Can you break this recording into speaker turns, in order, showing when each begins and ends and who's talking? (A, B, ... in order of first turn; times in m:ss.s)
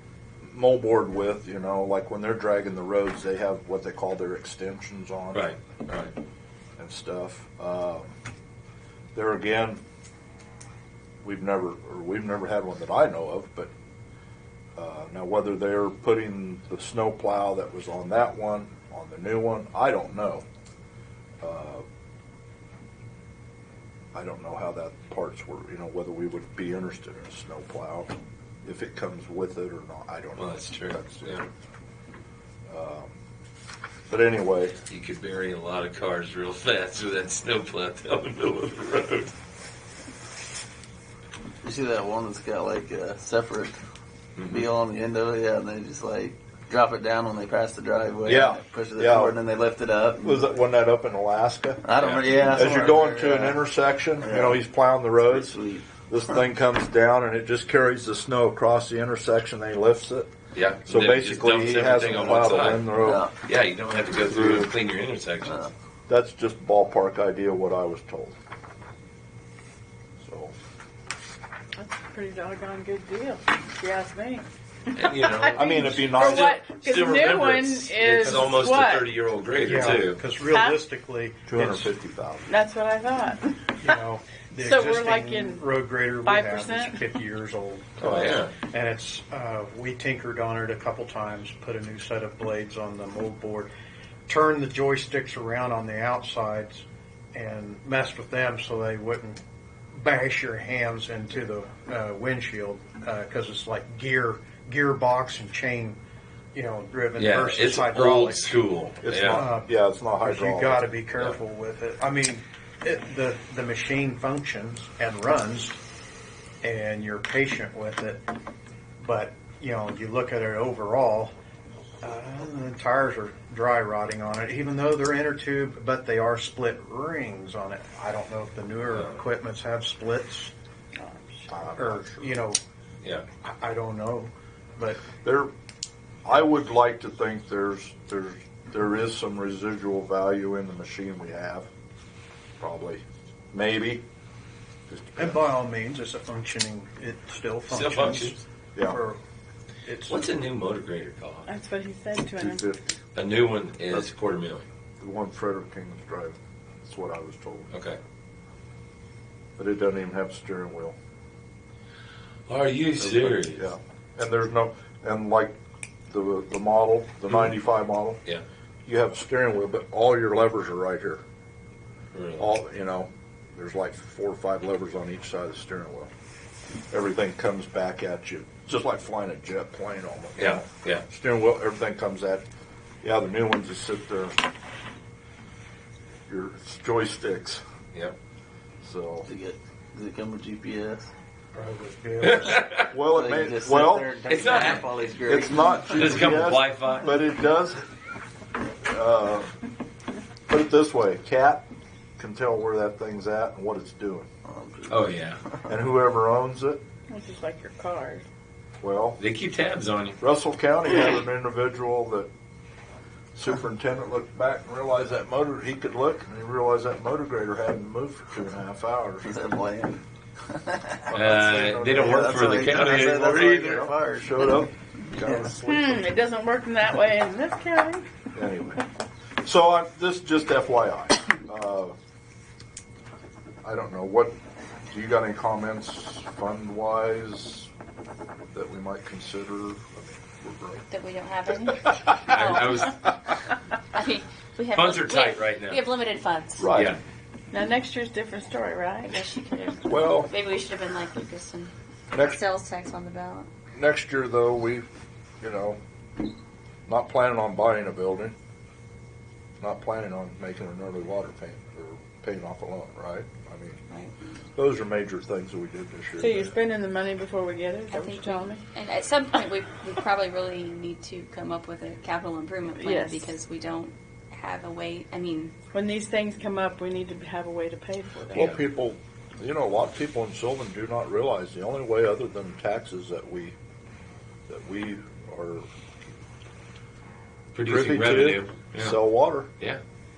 0:00.4-0:05.5 A
0:05.3-0:06.1 B
0:06.8-0:08.1 A
0:09.1-0:09.8 A
0:11.2-0:13.7 A
0:14.8-0:20.4 A
0:21.4-0:21.8 A
0:24.1-0:31.4 A
0:30.3-0:31.5 B
0:32.7-0:33.2 A
0:34.1-0:34.8 A
0:34.9-0:39.3 B
0:41.6-0:43.8 C
0:44.4-0:44.6 B
0:44.5-0:50.5 C
0:48.2-0:49.4 A
0:50.2-0:51.8 A
0:51.8-0:53.6 C
0:52.0-0:52.4 B
0:52.5-0:55.6 A
0:54.2-0:54.6 C
0:55.3-0:55.9 C
0:56.1-1:00.3 A
1:00.5-1:02.8 B
1:00.8-1:03.3 A
1:02.1-1:03.3 C
1:03.4-1:05.6 B
1:04.2-1:04.7 A
1:05.4-1:05.7 C
1:06.1-1:08.3 A
1:10.2-1:10.5 A
1:11.7-1:19.1 D
1:14.9-1:20.2 B
1:15.5-1:16.5 A
1:18.1-1:18.6 E
1:19.6-1:21.9 E
1:20.5-1:20.8 D
1:21.4-1:22.5 A
1:22.5-1:23.5 D
1:23.8-1:33.7 E
1:24.6-1:25.6 D
1:26.2-1:26.9 D
1:28.0-1:28.4 A
1:28.0-1:28.5 B
1:34.3-1:39.4 E
1:39.9-1:46.0 E
1:46.5-1:48.6 E
1:47.2-1:49.4 B
1:49.0-1:50.9 A
1:49.2-1:55.8 E
1:56.6-1:58.2 E
1:59.0-2:01.3 E
2:02.0-2:10.5 E
2:08.9-2:09.2 B
2:11.0-2:11.4 D
2:11.5-2:12.3 A
2:11.7-2:12.6 E
2:13.0-2:13.2 B
2:13.4-2:15.1 E
2:15.1-2:15.5 A
2:16.2-2:21.7 A
2:22.6-2:24.0 A
2:24.9-2:25.4 A
2:25.2-2:29.2 E
2:27.7-2:28.4 B
2:28.7-2:29.0 A
2:29.8-2:30.3 E
2:30.0-2:31.5 B
2:31.5-2:32.7 D
2:32.4-2:32.9 A
2:33.1-2:34.6 B
2:35.0-2:37.7 A
2:37.7-2:38.0 B
2:39.6-2:41.0 A
2:42.5-2:43.6 B
2:43.0-2:45.6 A
2:46.1-2:48.2 A
2:48.8-2:51.2 A
2:52.1-2:52.5 B
2:52.4-2:56.1 A
2:56.9-3:02.4 A
3:00.4-3:01.0 B
3:03.0-3:04.4 A
3:06.3-3:07.6 A
3:08.8-3:09.3 A
3:09.2-3:11.1 C
3:11.5-3:12.6 E
3:12.2-3:12.9 B
3:12.8-3:14.1 A
3:13.0-3:16.4 C
3:14.3-3:15.2 B
3:15.2-3:17.8 A
3:15.9-3:17.1 B
3:18.8-3:19.5 A
3:20.5-3:21.6 A
3:22.2-3:24.3 A
3:24.4-3:25.1 C
3:24.9-3:25.4 B
3:25.7-3:26.8 A
3:27.1-3:28.2 D
3:28.8-3:29.2 A
3:29.2-3:30.2 B
3:30.2-3:32.3 A
3:33.3-3:39.3 A
3:39.2-3:41.0 C
3:41.1-3:46.1 A
3:41.1-3:43.9 B
3:41.8-3:44.4 C
3:45.3-3:48.0 D
3:48.3-3:48.8 A
3:49.4-3:52.0 A
3:53.6-3:54.4 A
3:54.9-3:57.7 A
3:58.5-4:00.8 A
4:00.9-4:03.0 F
4:02.3-4:02.9 B
4:03.9-4:06.8 F
4:04.7-4:05.8 B
4:06.6-4:07.0 A
4:07.5-4:09.1 D
4:09.0-4:13.5 F
4:09.9-4:10.3 A
4:12.1-4:12.4 A
4:13.7-4:14.9 A
4:15.4-4:15.8 A
4:16.9-4:18.4 A
4:19.6-4:23.8 A
4:24.6-4:26.6 A
4:26.2-4:28.6 D
4:27.9-4:35.5 F
4:32.8-4:33.2 D
4:35.7-4:38.5 D
4:38.3-4:43.6 A
4:44.5-4:45.7 A
4:47.5-4:49.0 B
4:47.6-4:49.5 A